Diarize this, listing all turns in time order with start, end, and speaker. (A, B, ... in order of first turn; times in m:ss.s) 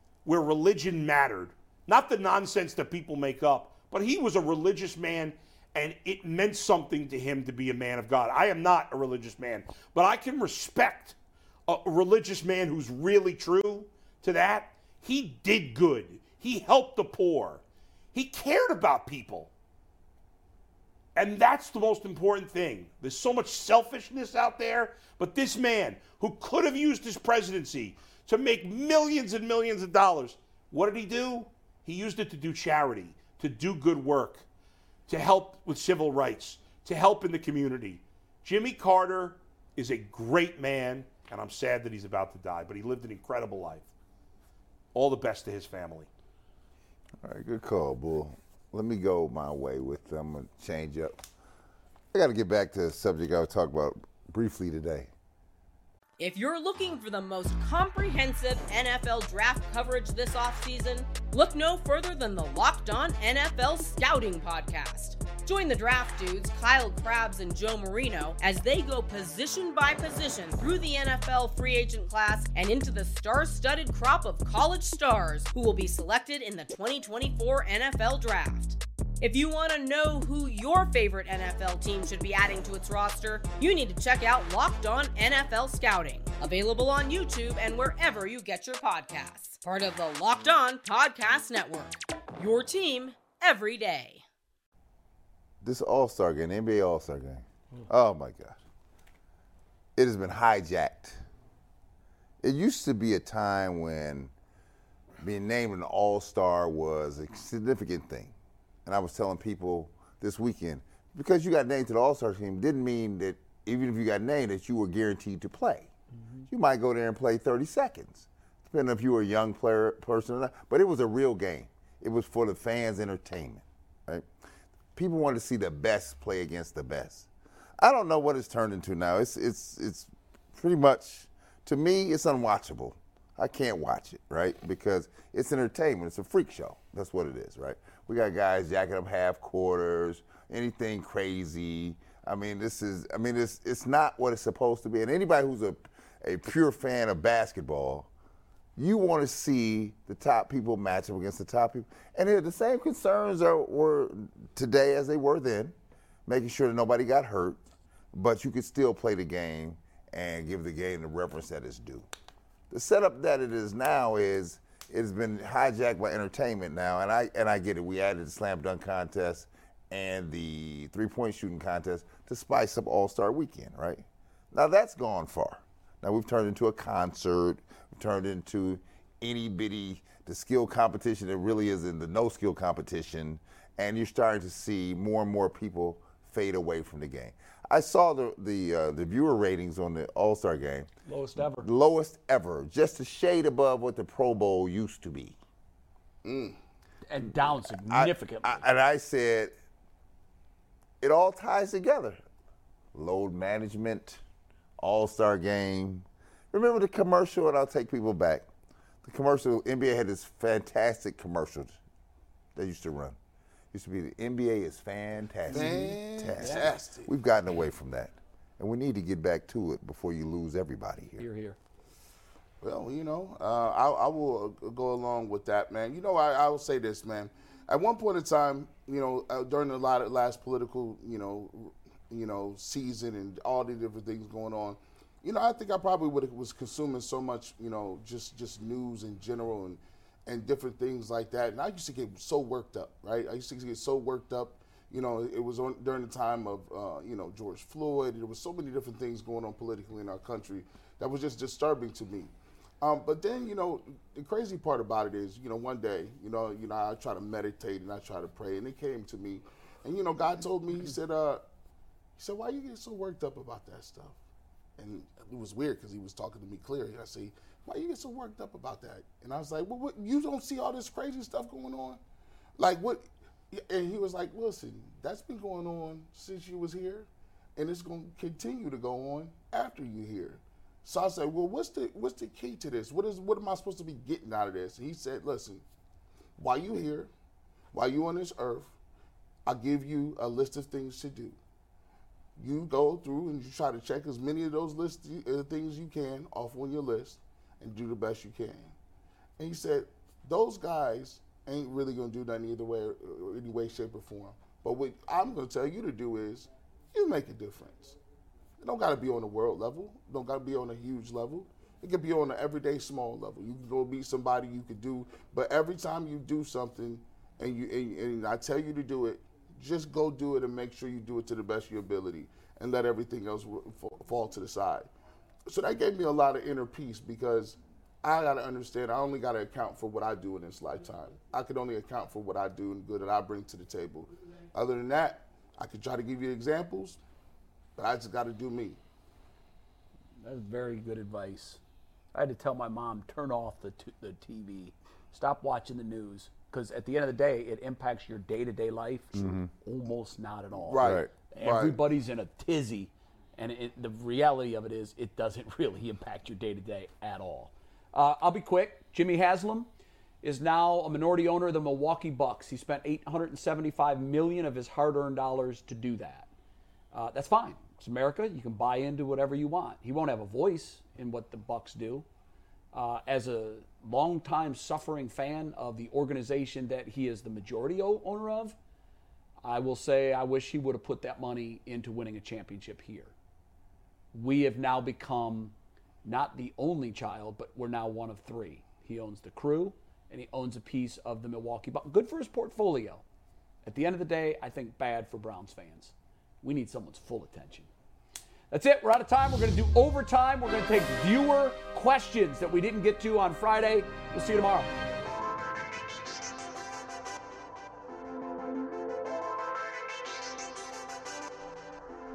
0:00.2-0:11.1 A
0:11.7-0:17.6 A
0:18.1-0:19.5 A
0:21.1-0:34.4 A
0:35.1-0:43.9 A
0:44.9-0:46.1 A
0:47.2-0:51.2 B
0:52.1-0:55.1 B
0:56.2-1:34.2 C
1:35.6-1:38.6 B
1:40.0-1:41.2 B
1:42.4-1:44.3 B
1:45.2-1:48.3 B
1:48.8-1:55.9 B
1:56.5-2:04.2 B
2:05.0-2:28.1 B
2:28.8-2:35.7 B
2:36.3-2:37.6 B
2:38.1-2:42.1 B
2:42.7-3:15.4 B
3:11.1-3:11.7 D
3:16.2-3:16.6 E
3:17.1-3:18.6 D
3:17.6-3:19.5 B
3:21.0-3:22.2 B
3:22.9-3:24.2 B
3:24.8-3:28.5 B
3:29.0-3:31.8 B
3:32.5-3:33.2 B
3:33.7-3:41.2 B
3:35.5-3:36.7 D
3:35.5-3:37.1 E
3:41.2-3:41.6 D
3:42.6-4:21.4 E
4:22.2-4:24.2 E
4:24.8-4:32.0 E
4:32.6-4:45.6 E
4:46.4-4:47.1 E
4:47.7-4:48.7 E
4:49.4-4:51.4 E
4:52.4-4:58.7 E
4:59.4-5:07.9 E
5:08.6-5:24.9 E
5:25.5-5:37.0 E
5:37.8-5:38.8 E
5:40.2-5:41.6 D
5:42.1-5:59.7 D
5:49.1-5:49.5 B
5:50.7-5:51.8 E
5:50.8-5:51.1 B
6:00.2-6:06.3 D
6:06.9-6:12.0 D
6:12.7-6:18.6 D
6:19.4-6:23.1 D
6:24.1-6:33.0 D
6:33.6-6:37.7 D
6:38.5-6:44.7 D